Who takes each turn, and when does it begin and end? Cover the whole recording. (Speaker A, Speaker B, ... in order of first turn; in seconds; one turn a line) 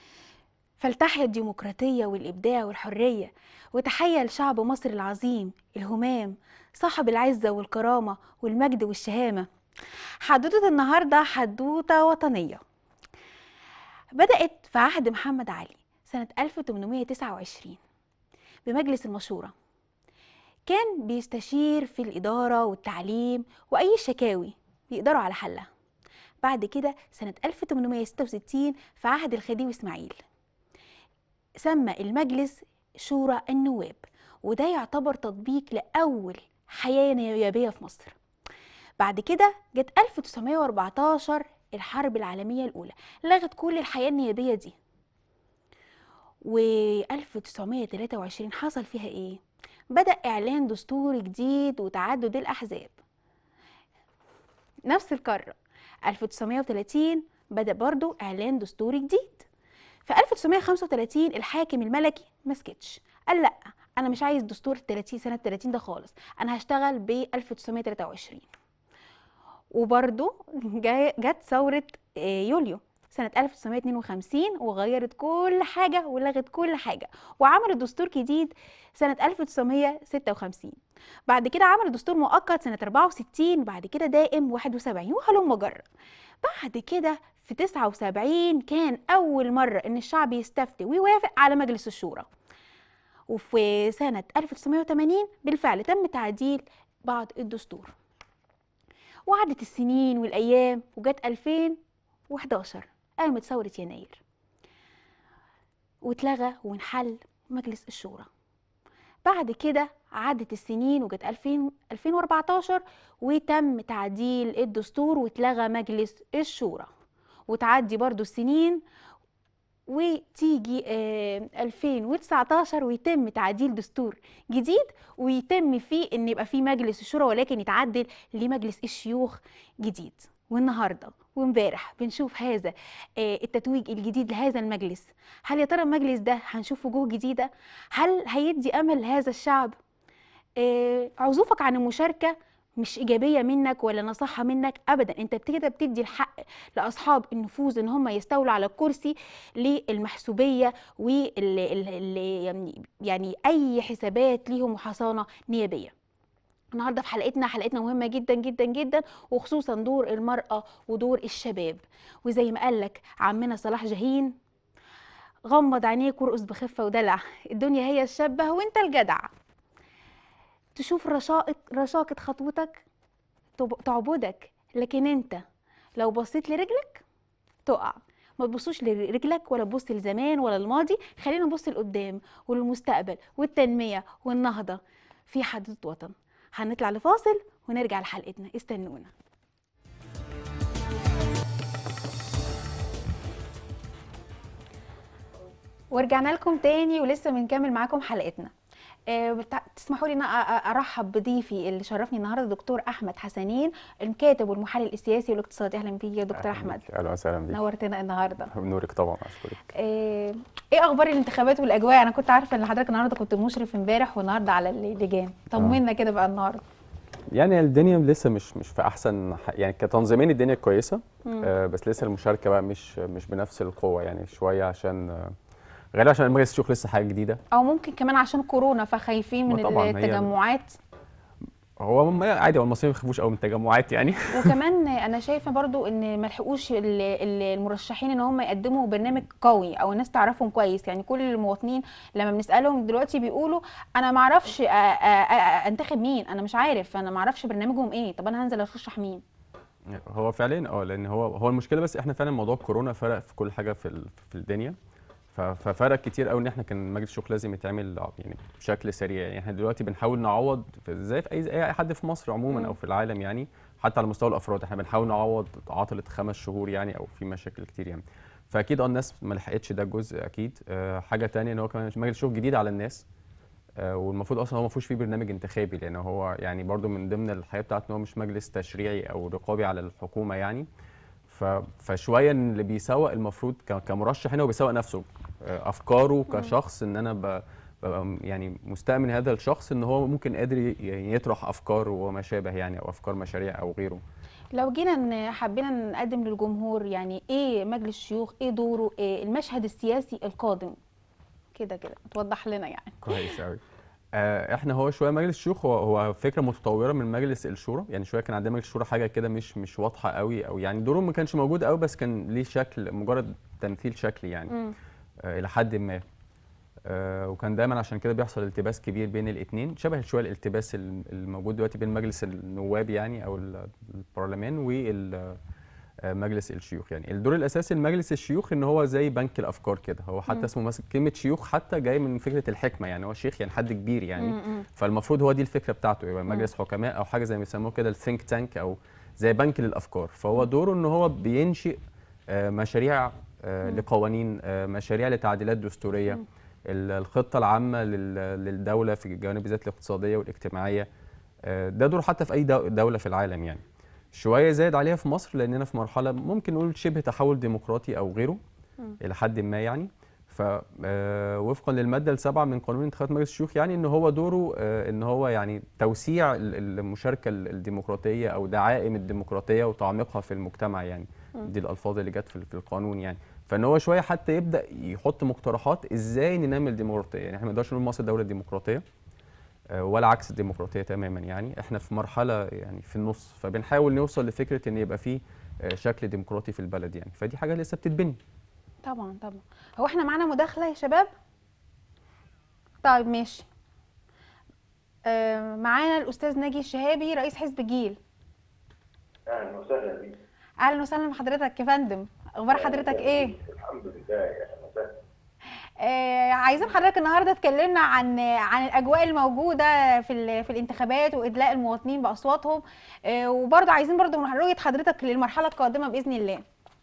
Speaker A: 0.8-9.4
Speaker A: 10.2-12.6
Speaker A: 14.2-17.8
Speaker A: 18.6-19.5
Speaker A: 20.7-25.6
Speaker A: 26.4-30.2
Speaker A: 31.6-38.1
Speaker A: 39.0-44.7
Speaker A: 46.5-49.4
Speaker A: 49.9-52.9
Speaker A: 54.9-55.5
Speaker A: 56.1-59.5
Speaker A: 60.0-68.5
Speaker A: 69.7-80.8
Speaker A: 81.3-85.8
Speaker A: 86.4-92.3
Speaker A: 93.3-97.9
Speaker A: 99.3-101.8
Speaker A: 102.3-104.2
Speaker A: 106.0-108.3
Speaker A: 109.2-116.9
Speaker A: 117.5-118.8
Speaker A: 119.9-139.7
Speaker A: 140.6-155.9
Speaker A: 156.7-164.3
Speaker A: 165.5-169.3
Speaker A: 170.8-172.8
Speaker A: 173.6-175.4
Speaker A: 176.0-177.0
Speaker A: 177.7-189.1
Speaker A: 195.9-198.5
Speaker A: 199.1-206.8
Speaker B: 206.3-207.6
Speaker A: 207.5-208.5
Speaker B: 208.5-209.6
Speaker A: 209.8-216.6
Speaker B: 217.3-225.3
Speaker A: 221.2-221.5
Speaker B: 225.9-227.4
Speaker A: 227.5-230.7
Speaker B: 229.5-230.3
Speaker B: 231.8-234.5
Speaker A: 234.3-249.2
Speaker B: 249.9-254.8
Speaker B: 255.3-273.1
Speaker B: 273.8-280.7
Speaker B: 281.3-294.0
Speaker A: 294.5-300.8
Speaker A: 301.5-303.3
Speaker B: 303.0-303.6
Speaker B: 304.1-314.5
Speaker A: 314.5-314.8
Speaker B: 315.3-316.0
Speaker B: 316.9-325.4
Speaker B: 326.1-341.8
Speaker A: 334.2-334.6
Speaker B: 342.3-350.9
Speaker B: 351.4-353.6
Speaker B: 354.1-358.4
Speaker B: 359.0-378.8
Speaker B: 379.8-388.2
Speaker A: 388.8-391.1
Speaker A: 392.8-393.5
Speaker A: 395.1-398.0
Speaker C: 399.3-400.2
Speaker A: 400.6-403.3
Speaker C: 402.5-404.9
Speaker A: 405.8-416.4